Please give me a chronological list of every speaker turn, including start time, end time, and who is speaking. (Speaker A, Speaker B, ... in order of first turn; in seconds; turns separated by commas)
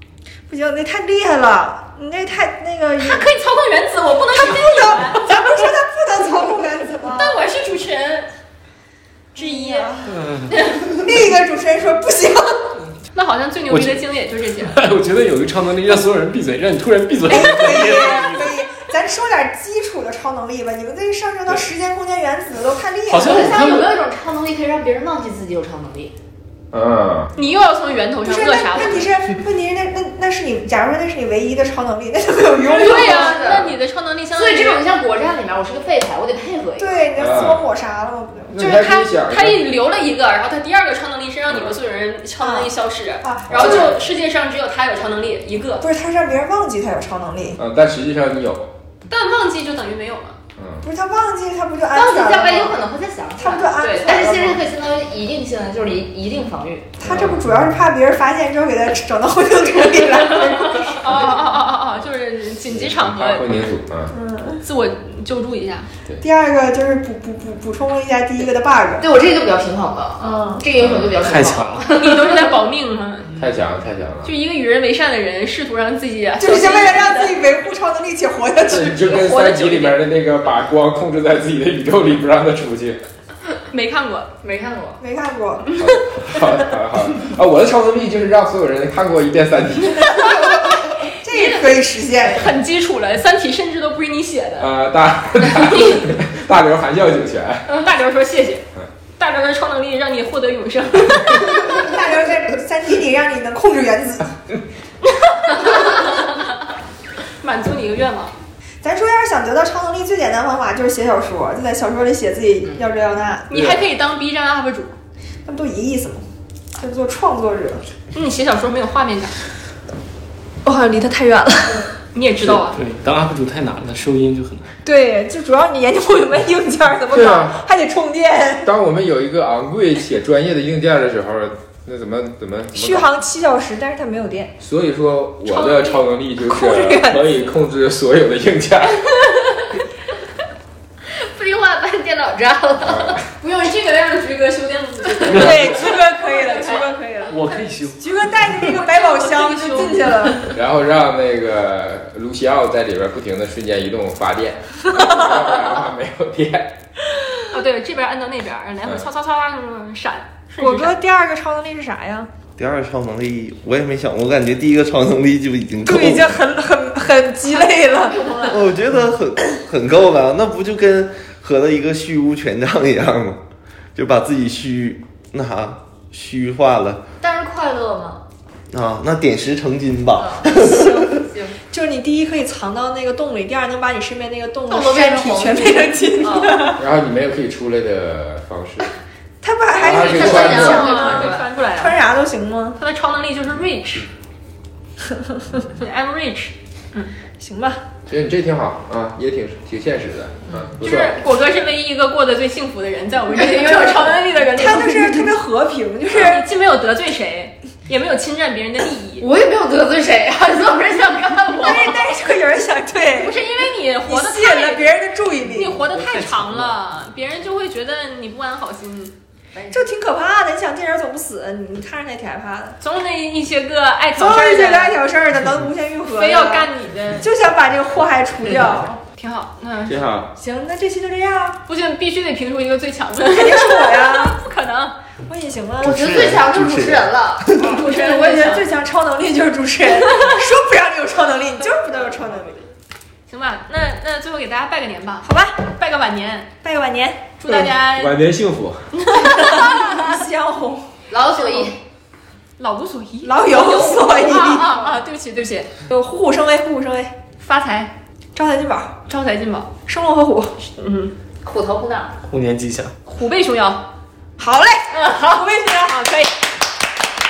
Speaker A: 0.5-3.3, Speaker B: 3.0-5.7, Speaker A: 4.3-7.4, Speaker B: 7.0-8.3, Speaker A: 9.3-10.1, Speaker B: 9.3-10.9, Speaker C: 10.1-10.6, Speaker A: 10.9-12.7, Speaker B: 13.1-14.8, Speaker C: 13.7-14.0, Speaker C: 14.6-18.6, Speaker A: 17.3-23.6, Speaker C: 23.1-23.9, Speaker D: 23.2-26.1, Speaker E: 26.7-27.3, Speaker B: 27.4-29.1, Speaker A: 28.3-33.5, Speaker D: 32.7-33.8, Speaker B: 32.7-34.8, Speaker D: 34.3-37.0, Speaker A: 36.8-38.6, Speaker E: 37.2-37.6, Speaker E: 38.5-39.6, Speaker B: 38.6-45.8, Speaker E: 41.5-41.8, Speaker A: 42.4-42.7, Speaker A: 43.2-43.9, Speaker E: 43.5-44.0, Speaker A: 45.8-47.6, Speaker E: 47.6-48.7, Speaker B: 49.1-50.4, Speaker E: 50.6-50.8, Speaker A: 50.8-52.8, Speaker D: 51.9-56.9, Speaker A: 53.4-54.6, Speaker A: 57.0-61.2, Speaker E: 57.0-57.4, Speaker B: 60.8-63.7, Speaker E: 62.7-64.1, Speaker A: 64.1-64.6, Speaker B: 64.6-65.9, Speaker A: 66.2-69.1, Speaker D: 69.0-72.5, Speaker A: 70.2-70.6, Speaker E: 70.8-71.1, Speaker C: 71.2-71.9, Speaker B: 71.9-73.3, Speaker E: 73.4-74.3, Speaker B: 74.2-77.4, Speaker A: 76.4-79.6, Speaker E: 78.7-83.0, Speaker B: 79.5-79.9, Speaker B: 83.7-84.4, Speaker D: 84.4-85.0, Speaker A: 85.0-85.7, Speaker E: 85.8-90.4, Speaker A: 90.2-92.5, Speaker B: 91.3-94.7, Speaker E: 94.6-97.8, Speaker B: 95.4-96.1, Speaker B: 97.7-98.7, Speaker B: 99.2-101.8, Speaker A: 101.6-104.3, Speaker B: 105.2-106.3, Speaker B: 107.4-108.3, Speaker A: 108.8-113.7, Speaker B: 113.5-115.0, Speaker A: 115.5-116.2, Speaker A: 116.8-117.8, Speaker B: 118.1-119.4, Speaker A: 120.6-121.9, Speaker B: 122.1-122.8, Speaker C: 122.4-124.7, Speaker A: 124.8-128.7, Speaker E: 127.1-127.6, Speaker E: 128.7-133.1, Speaker A: 132.8-134.5, Speaker E: 134.6-139.1, Speaker B: 135.4-136.0, Speaker A: 136.4-137.4, Speaker D: 141.1-143.2, Speaker E: 142.8-143.2, Speaker B: 143.4-147.3, Speaker A: 145.3-147.4, Speaker C: 147.3-148.4, Speaker A: 148.0-150.5, Speaker B: 148.6-150.3, Speaker E: 150.5-156.8, Speaker B: 157.4-161.0, Speaker A: 160.6-162.3, Speaker F: 162.6-166.4, Speaker A: 165.8-168.5, Speaker D: 168.1-168.7, Speaker F: 168.5-173.4, Speaker F: 173.9-177.0, Speaker D: 177.2-178.2, Speaker F: 178.7-181.2, Speaker D: 180.2-180.6, Speaker A: 180.5-186.8, Speaker D: 181.2-181.6, Speaker D: 184.7-186.8, Speaker E: 186.8-188.9, Speaker A: 189.4-192.8, Speaker E: 189.8-191.3, Speaker D: 189.9-191.4, Speaker B: 189.9-192.0, Speaker B: 192.8-194.1, Speaker B: 195.6-197.1, Speaker A: 197.4-197.8, Speaker E: 198.1-201.2, Speaker B: 200.8-205.4, Speaker D: 203.7-204.1, Speaker A: 204.5-206.4, Speaker B: 206.1-209.3, Speaker D: 209.2-212.1, Speaker A: 211.6-213.4, Speaker B: 213.2-214.9, Speaker A: 214.1-215.8, Speaker B: 215.5-219.2, Speaker C: 215.9-216.8, Speaker D: 219.6-219.8, Speaker A: 219.7-222.8, Speaker B: 222.8-225.0, Speaker A: 224.2-226.7, Speaker B: 226.1-227.3, Speaker A: 227.2-229.0, Speaker B: 229.2-230.0, Speaker E: 229.9-230.3, Speaker A: 230.4-231.6, Speaker B: 231.7-235.0, Speaker A: 233.2-234.4, Speaker A: 235.2-236.3, Speaker D: 235.8-237.5, Speaker F: 235.8-237.1, Speaker B: 237.6-238.7, Speaker A: 237.6-242.7, Speaker B: 240.0-240.4, Speaker B: 243.3-246.5, Speaker A: 245.2-245.6, Speaker A: 246.6-247.4, Speaker B: 247.4-248.2, Speaker E: 247.5-248.9, Speaker B: 248.9-250.2, Speaker A: 249.2-250.8, Speaker D: 251.1-251.8, Speaker B: 251.3-251.7, Speaker B: 252.6-255.7, Speaker A: 253.2-254.7, Speaker D: 253.5-254.7, Speaker A: 255.9-257.1, Speaker B: 257.4-257.9, Speaker A: 258.4-259.0, Speaker B: 259.1-259.7, Speaker A: 259.9-260.6, Speaker B: 260.6-261.2, Speaker D: 261.4-262.2, Speaker C: 262.3-262.9, Speaker B: 263.1-263.8, Speaker A: 264.4-266.0, Speaker B: 265.8-266.4